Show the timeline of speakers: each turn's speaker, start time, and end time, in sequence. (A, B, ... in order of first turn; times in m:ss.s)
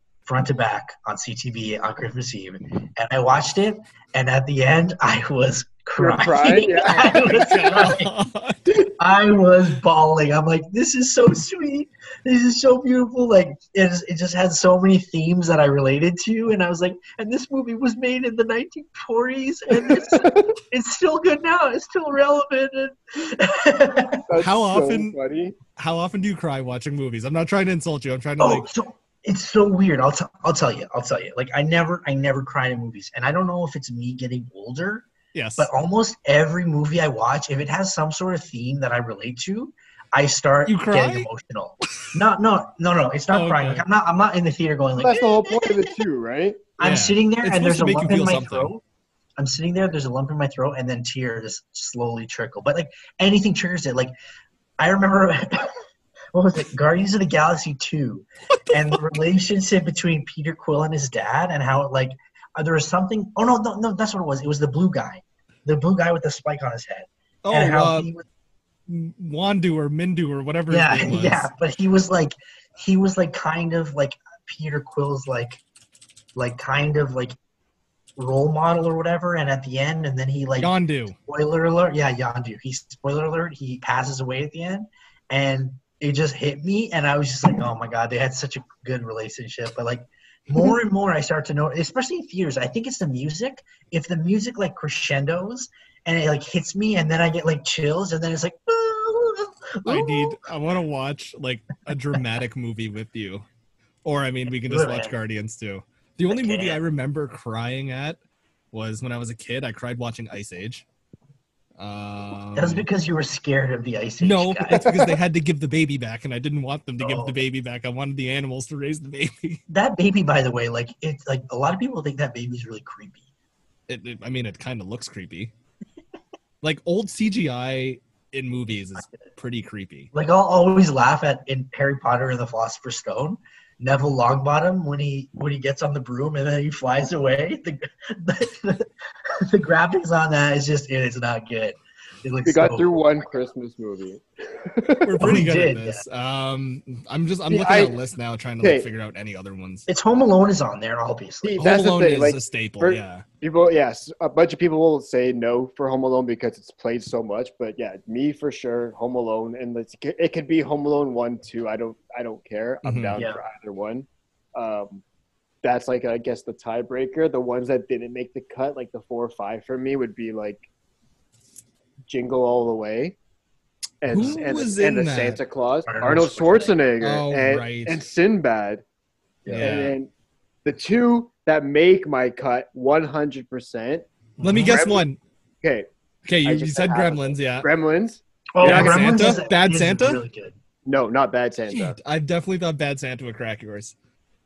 0:00.3-0:08.1 A
0:06.0-0:07.4 B
0:07.2-0:08.8 C
0:08.8-0:24.3 A
0:20.1-0:20.5 B
0:24.3-0:25.6 B
0:24.4-0:25.2 C
0:25.8-0:28.7 C
0:28.4-0:35.1 A
0:35.3-0:35.7 C
0:35.6-0:45.8 A
0:40.7-0:41.3 C
0:43.3-0:43.8 C
0:45.0-0:46.6 B
0:46.8-0:48.8 A
0:46.8-0:48.7 C
0:49.4-0:54.1 A
0:54.8-0:55.8 A
0:56.3-1:08.2 A
0:58.7-0:59.0 C
1:07.4-1:08.1 C
1:08.9-1:11.5 C
1:10.7-1:15.6 A
1:16.4-1:17.4 A
1:18.2-1:20.7 A
1:20.6-1:21.2 C
1:21.3-1:40.4 A
1:39.8-1:43.5 C
1:44.0-1:48.2 C
1:44.6-1:45.1 A
1:46.3-1:46.8 A
1:48.7-1:50.8 C
1:51.8-1:52.9 C
1:52.6-1:55.0 A
1:54.2-1:59.6 C
1:54.8-1:55.1 B
1:57.0-1:57.4 A
1:59.7-2:03.2 A
2:03.9-2:05.5 C
2:06.6-2:10.1 C
2:10.1-2:22.9 A
2:22.4-2:25.2 B
2:25.0-2:29.9 C
2:25.2-2:26.0 A
2:27.5-2:28.0 B
2:28.6-2:28.9 B
2:29.9-2:31.6 A
2:31.4-2:45.0 B
2:31.6-2:33.2 C
2:42.8-2:43.2 C
2:45.6-2:50.6 B
2:52.1-2:53.2 B
2:54.0-2:58.8 B
2:54.1-2:55.4 C
2:55.9-2:56.8 A
2:57.0-2:58.0 C
2:59.4-2:59.8 A
2:59.5-2:59.9 C
2:59.6-3:00.1 B
3:00.6-3:05.0 B
3:04.4-3:04.8 A
3:04.4-3:05.2 C
3:05.6-3:05.9 B
3:06.2-3:07.7 C
3:06.4-3:09.2 B
3:08.5-3:10.6 A
3:08.6-3:10.2 C
3:10.9-3:12.0 B
3:11.7-3:14.0 C